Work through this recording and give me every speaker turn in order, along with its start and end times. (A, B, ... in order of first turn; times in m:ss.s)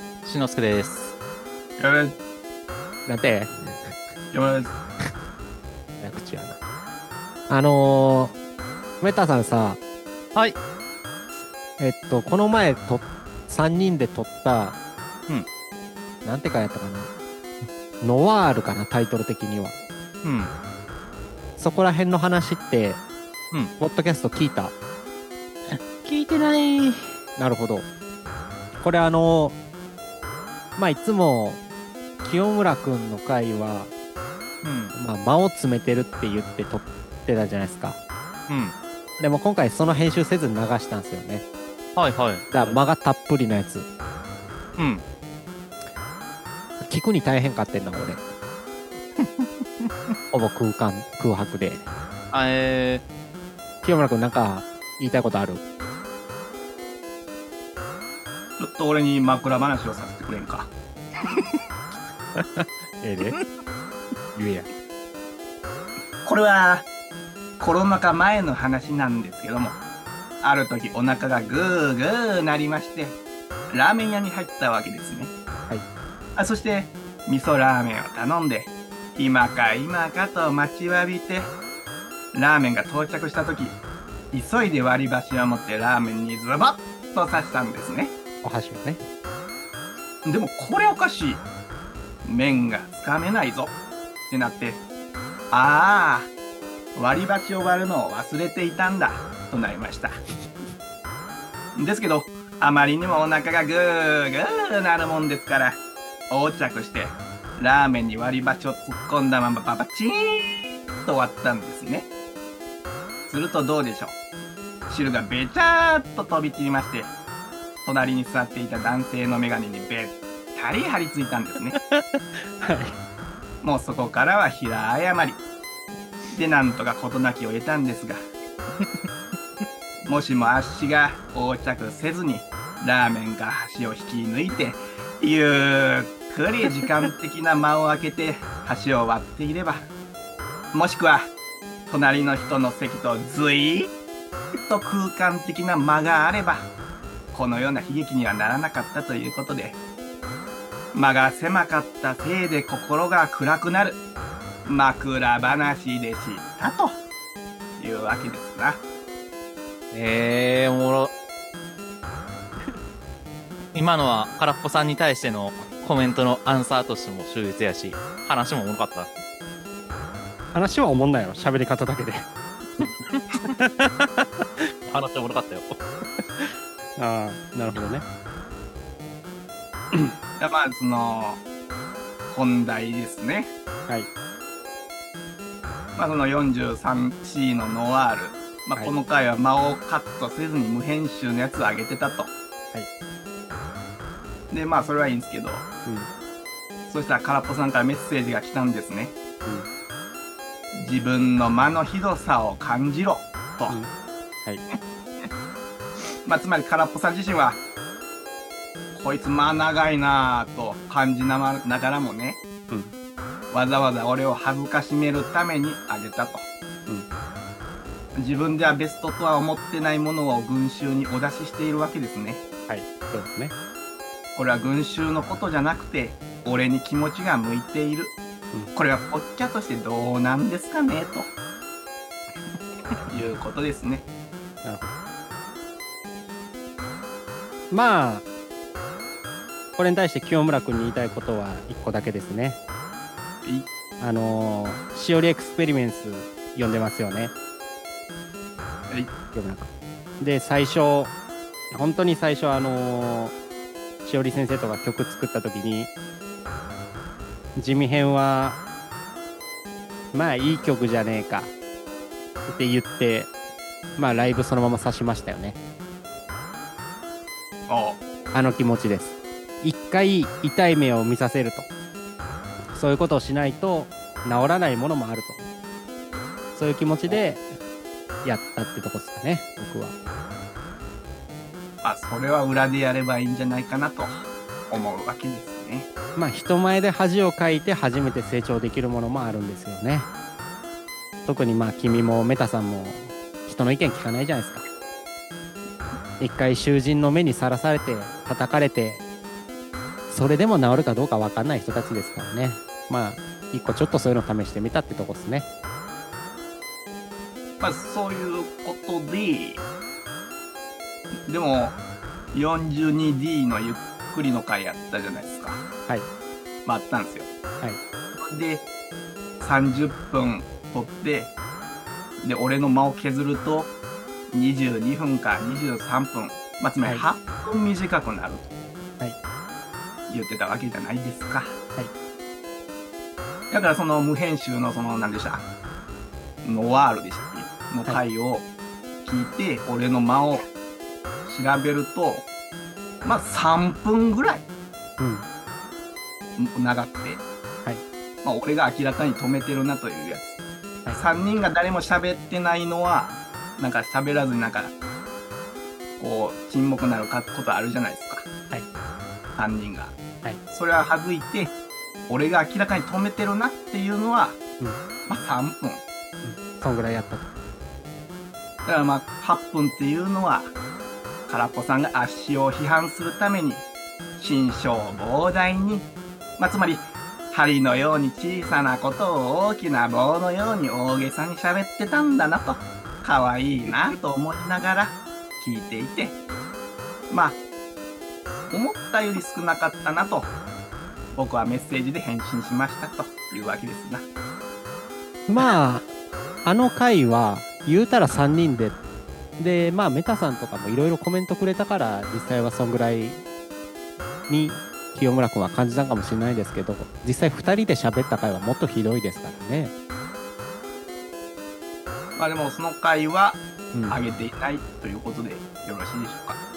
0:00.2-0:01.1 A
0:01.8-0:02.2 B
0:03.1-0:03.9 C
0:04.3-0:04.7 B
0:06.0-0:06.6 C
0:07.5-0:08.4 C
0:09.0-0:09.8 C
0:11.8-0:14.8 C
0:16.2-0:17.1 C
0:18.0-0:19.8 C
0:20.2-0:20.5 A
0:21.6-0:23.0 C
0:23.8-0:24.7 C
0:25.7-0:27.1 A
0:27.4-0:27.9 C
0:28.8-0:29.6 C
0:30.8-0:31.6 C
0:32.2-0:33.9 C
0:34.6-0:34.9 A
0:34.9-0:38.0 C
0:38.5-0:38.8 A
0:39.2-0:41.4 C
0:42.0-0:42.8 A
0:42.5-0:43.9 C
0:44.8-0:45.0 A
0:46.8-0:48.3 C
0:49.2-0:49.9 A
0:50.3-0:51.9 C
0:52.3-0:53.0 A
0:53.8-0:55.6 C
0:58.6-1:00.7 B
1:02.4-1:03.4 C
1:04.4-1:04.7 C
1:06.2-1:06.9 B
1:07.6-1:09.8 B
1:10.4-1:13.2 B
1:13.7-1:15.3 B
1:16.4-1:21.6 B
1:22.3-1:23.8 B
1:24.3-1:28.1 B
1:28.4-1:29.0 C
1:30.2-1:31.4 B
1:32.2-1:33.8 B
1:34.3-1:34.8 B
1:35.5-1:36.3 B
1:37.0-1:40.2 B
1:41.8-1:52.1 B
1:53.3-1:54.2 B
1:54.9-1:57.1 B
1:57.8-2:01.8 B
2:01.9-2:03.0 C
2:03.6-2:05.4 B
2:06.3-2:08.2 B
2:10.0-2:19.9 B
2:20.7-2:21.3 B
2:21.9-2:23.9 B
2:24.6-2:26.7 B
2:27.3-2:29.8 B
2:30.9-2:34.0 B
2:34.6-2:37.0 B
2:37.8-2:38.8 B
2:39.9-2:41.1 A
2:43.7-2:49.1 A
2:50.5-2:52.3 C
2:52.8-2:53.2 A
2:53.4-2:54.7 C
2:54.9-2:55.8 A
2:56.4-2:58.1 C
3:00.4-3:01.4 B
3:02.3-3:03.5 B
3:06.0-3:12.3 B
3:14.5-3:15.7 B
3:16.9-3:19.1 B
3:20.7-3:23.8 B
3:26.2-3:27.6 B
3:28.9-3:32.4 B
3:33.5-3:36.5 B
3:38.2-3:42.4 B
3:42.7-3:43.5 C
3:44.4-3:48.2 B
3:48.8-3:51.3 B
3:53.1-3:54.0 B
3:54.6-3:55.0 C
3:57.7-3:58.2 C
3:59.8-4:02.6 C
4:04.0-4:07.3 C
4:09.3-4:11.1 C
4:11.7-4:13.3 C
4:14.0-4:15.9 C
4:17.6-4:18.6 C
4:20.1-4:21.5 C
4:22.5-4:23.3 C
4:24.0-4:25.6 C
4:27.7-4:28.0 B
4:28.3-4:31.7 C
4:32.7-4:35.5 C
4:36.6-4:37.5 C
4:38.2-4:40.0 C
4:41.8-4:45.9 B
4:46.2-4:50.1 C
4:51.3-4:54.6 C
4:56.2-4:59.0 C
5:00.1-5:05.5 C
5:07.6-5:09.6 B
5:11.3-5:11.8 B
5:12.3-5:15.6 B
5:16.6-5:17.3 B
5:18.1-5:18.6 B
5:19.4-5:21.3 B
5:22.2-5:23.7 B
5:24.3-5:28.5 B
5:30.1-5:31.5 B
5:33.5-5:35.4 B
5:36.4-5:38.5 B
5:39.0-5:40.5 B
5:41.2-5:42.3 B
5:43.0-5:44.4 B
5:45.0-5:45.3 C
5:46.4-5:47.2 B
5:48.2-5:50.4 B
5:50.9-5:54.7 B
5:56.0-5:58.3 B
5:59.4-6:00.0 B
6:00.5-6:01.5 B
6:02.1-6:04.4 B
6:05.1-6:05.8 B
6:06.2-6:07.3 C
6:08.6-6:10.5 B
6:11.3-6:13.6 B
6:14.2-6:26.2 B
6:27.1-6:27.4 B
6:28.5-6:30.3 B
6:31.1-6:34.0 B
6:35.3-6:35.9 C
6:36.4-6:38.8 C
6:39.4-6:43.2 C
6:44.3-6:49.7 C
6:52.2-6:56.4 B